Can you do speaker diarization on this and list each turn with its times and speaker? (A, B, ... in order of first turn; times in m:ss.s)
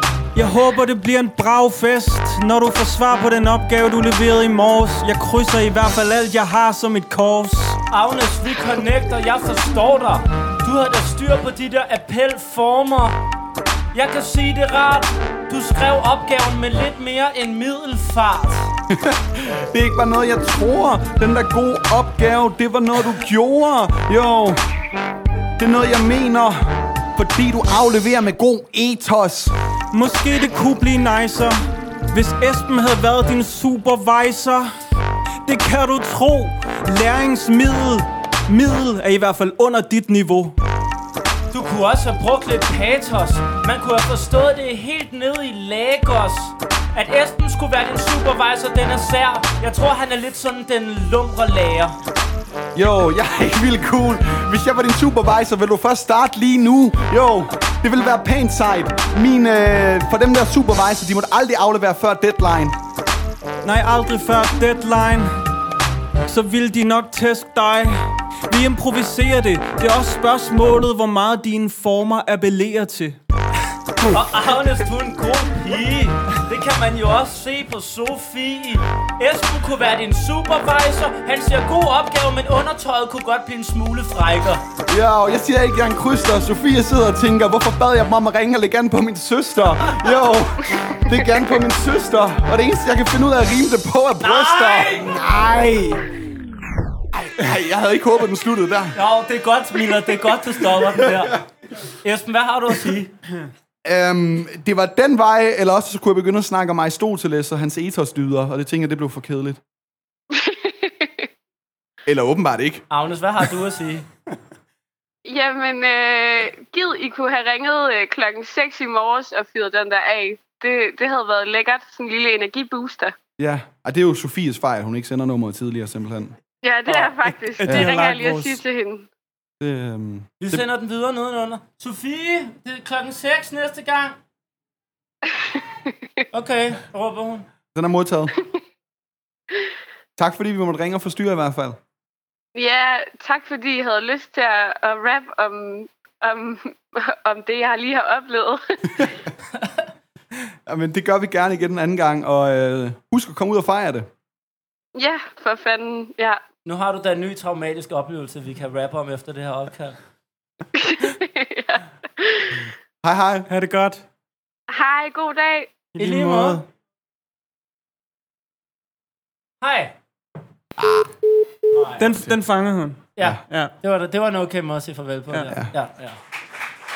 0:00.3-0:07.8 A
0:07.9-0:13.2 B
0:13.9-0:18.7 B
0:18.9-0:24.6 C
0:25.6-0:29.6 C
0:29.9-0:34.7 A
0:35.4-0:40.6 A
0:41.5-0:52.0 B
0:52.8-1:02.8 C
1:03.6-1:05.4 A
1:06.3-1:13.2 A
1:14.0-1:24.6 B
1:24.9-1:36.1 C
1:34.2-1:35.2 B
1:37.1-1:39.0 C
1:39.0-1:43.1 B
1:40.8-1:41.4 C
1:43.8-1:49.6 C
1:50.3-1:51.3 D
1:52.1-1:52.8 C
1:52.9-1:54.1 B
1:55.2-2:03.2 D
2:03.4-2:06.4 C
2:06.6-2:09.1 D
2:06.9-2:08.6 A
2:07.7-2:08.0 C
2:09.6-2:10.6 C
2:10.4-2:14.2 B
2:15.3-2:15.9 D
2:16.3-2:17.5 B
2:17.7-2:18.4 C
2:20.2-2:21.8 C
2:22.6-2:29.1 D
2:30.7-2:34.1 C
2:35.0-2:36.4 D
2:36.6-2:40.0 B
2:40.8-2:42.6 D
2:43.0-2:43.5 C
2:43.5-2:44.0 A
2:44.7-2:45.9 D
2:46.0-2:46.7 A
2:46.0-2:46.6 B
2:49.6-2:50.0 B
2:50.8-2:51.1 C
2:51.7-2:52.1 B
2:52.0-2:53.7 A
2:53.2-2:56.2 B